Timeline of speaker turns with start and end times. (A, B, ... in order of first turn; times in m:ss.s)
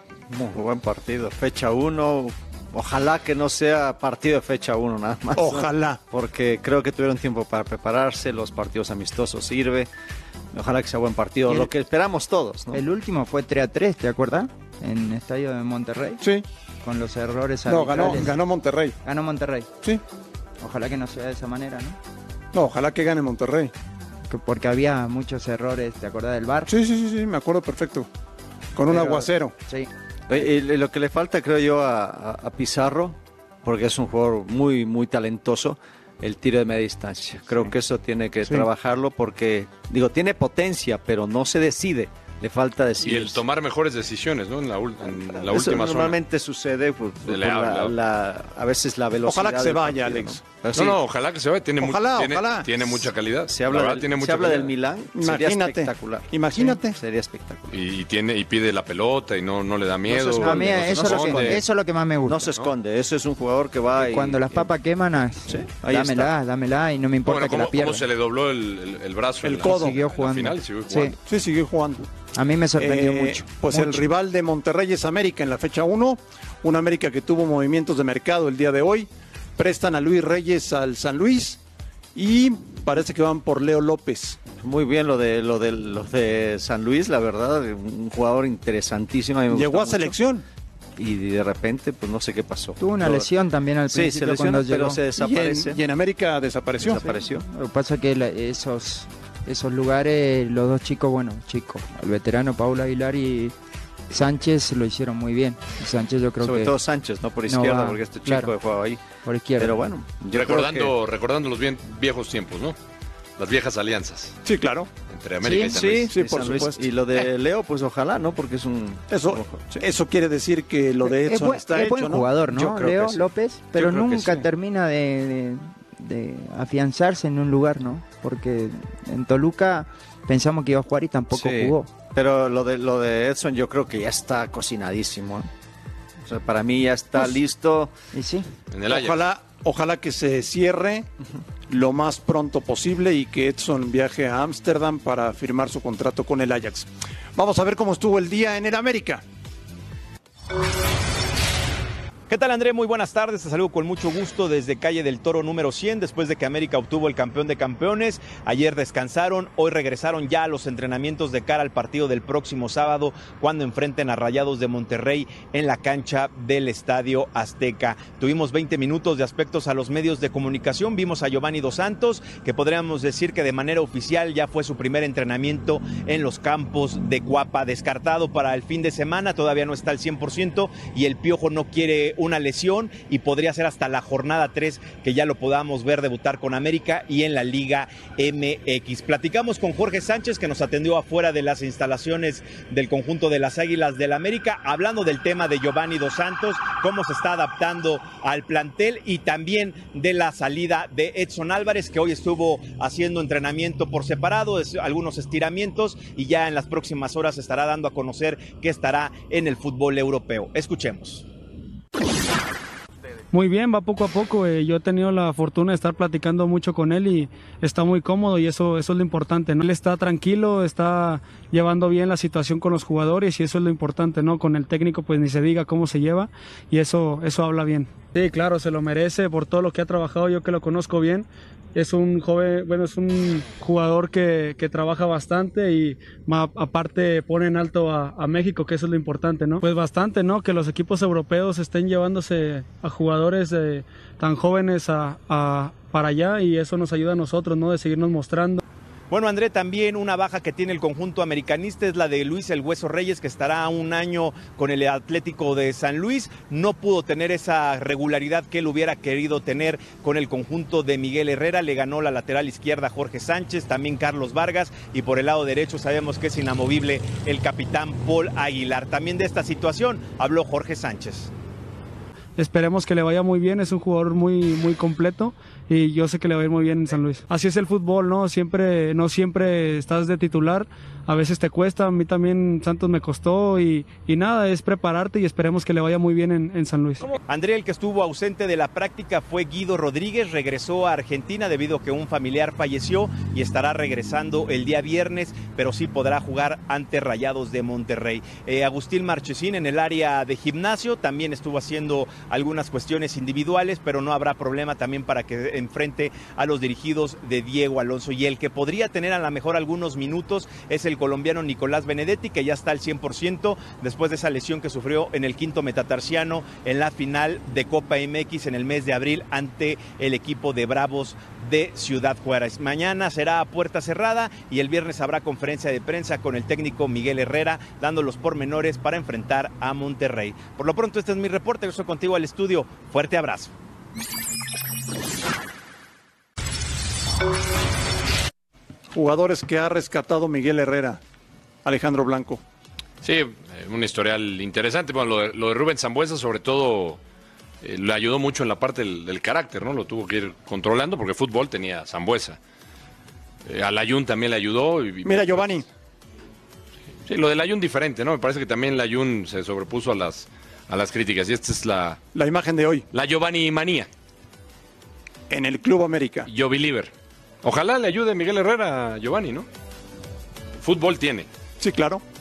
0:00.3-0:09.9 A
0:05.4-0:06.0 B
0:10.5-0:12.8 A
0:12.7-0:16.2 C
0:16.8-0:18.4 C
0:17.7-0:19.0 B
0:19.0-0:19.7 C
0:20.6-0:22.0 C
0:22.5-0:23.7 B
0:24.3-0:26.7 C
0:26.7-0:28.1 B
0:28.8-0:29.5 B
0:28.9-0:29.9 C
0:30.3-0:43.4 A
0:43.0-0:46.2 D
0:45.3-0:51.0 A
0:47.3-0:48.0 D
0:49.2-0:50.4 B
0:50.7-0:54.7 D
0:51.8-0:52.7 B
0:53.5-0:57.8 A
0:55.1-0:57.0 B
0:57.7-1:01.6 D
1:00.1-1:01.6 A
1:00.4-1:02.5 C
1:02.3-1:04.7 A
1:04.0-1:08.0 C
1:05.5-1:06.3 A
1:07.3-1:11.2 D
1:09.4-1:10.0 B
1:09.6-1:11.2 C
1:11.2-1:12.1 B
1:12.4-1:14.0 C
1:12.8-1:21.6 B
1:22.2-1:24.4 B
1:24.6-1:30.2 A
1:29.5-1:30.4 B
1:31.0-1:33.3 A
1:32.8-1:35.0 C
1:33.9-1:35.8 A
1:35.2-1:37.0 B
1:36.8-1:37.4 A
1:36.9-1:43.5 C
1:44.1-1:46.8 C
1:46.4-1:49.0 A
1:47.5-1:48.5 C
1:49.2-1:49.8 C
1:49.6-1:50.9 A
1:50.3-1:52.8 D
1:53.4-1:54.4 D
1:54.4-1:54.9 B
1:55.1-1:56.1 D
1:55.4-1:55.7 C
1:55.5-1:59.8 A
1:56.1-1:56.8 B
1:59.1-2:02.4 B
2:01.0-2:11.9 C
2:02.6-2:03.2 A
2:03.8-2:04.4 A
2:11.3-2:15.5 A
2:16.2-2:17.9 A
2:18.1-2:18.5 C
2:18.7-2:19.2 D
2:18.9-2:21.1 B
2:21.7-2:29.2 B
2:32.3-3:31.3 E
3:33.3-4:08.6 F
4:09.1-4:31.3 E
4:32.4-4:47.2 F
4:47.3-5:33.5 E
5:38.9-5:41.0 B
5:41.6-5:42.4 B
5:43.0-5:47.0 D
5:47.6-5:52.4 D
5:53.5-5:55.6 D
5:55.0-5:55.7 B
5:57.1-6:02.0 D
6:02.1-6:02.9 B
6:02.9-6:03.9 D
6:05.3-6:06.3 B
6:06.3-6:06.9 D
6:07.4-6:09.5 D
6:10.6-6:11.3 D
6:11.6-6:12.0 B